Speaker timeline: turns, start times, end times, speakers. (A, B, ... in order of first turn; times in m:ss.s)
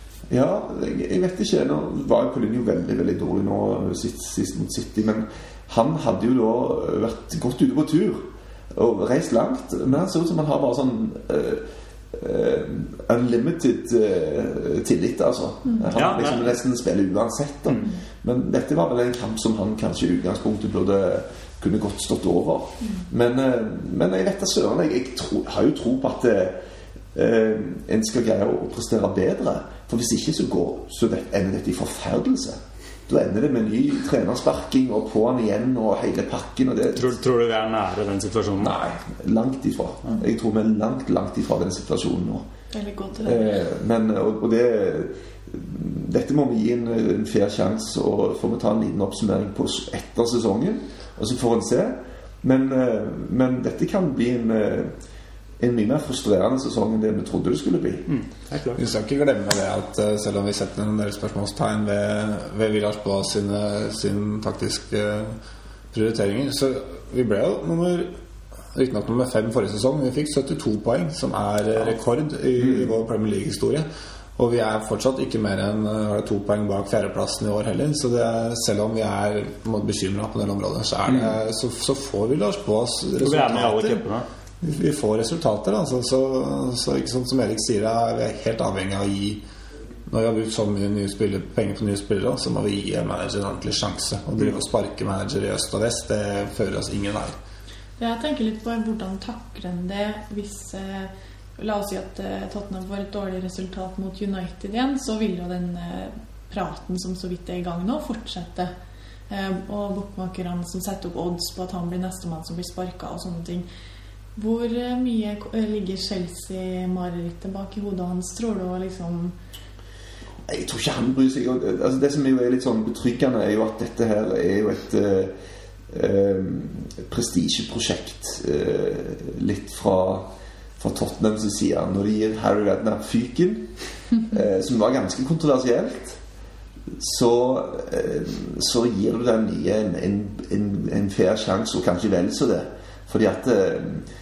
0:00.3-0:26.6 A
0:15.9-0:16.6 B
0:27.1-0:37.1 A
0:36.9-0:38.8 B
0:38.6-0:42.5 A
0:42.7-0:43.6 C
0:43.2-0:54.9 A
0:55.6-0:58.1 A
0:58.1-0:58.8 B
0:58.8-1:05.4 D
1:05.9-1:08.1 D
1:08.7-1:24.0 D
1:12.6-1:12.9 A
1:23.2-1:24.3 B
1:24.6-1:29.4 D
1:30.1-1:37.4 D
1:38.0-1:48.7 C
1:49.3-1:53.7 C
1:54.4-1:59.4 C
2:00.5-2:05.3 A
2:05.9-2:10.3 A
2:10.8-2:13.7 A
2:14.2-2:16.2 A
2:17.0-2:24.1 A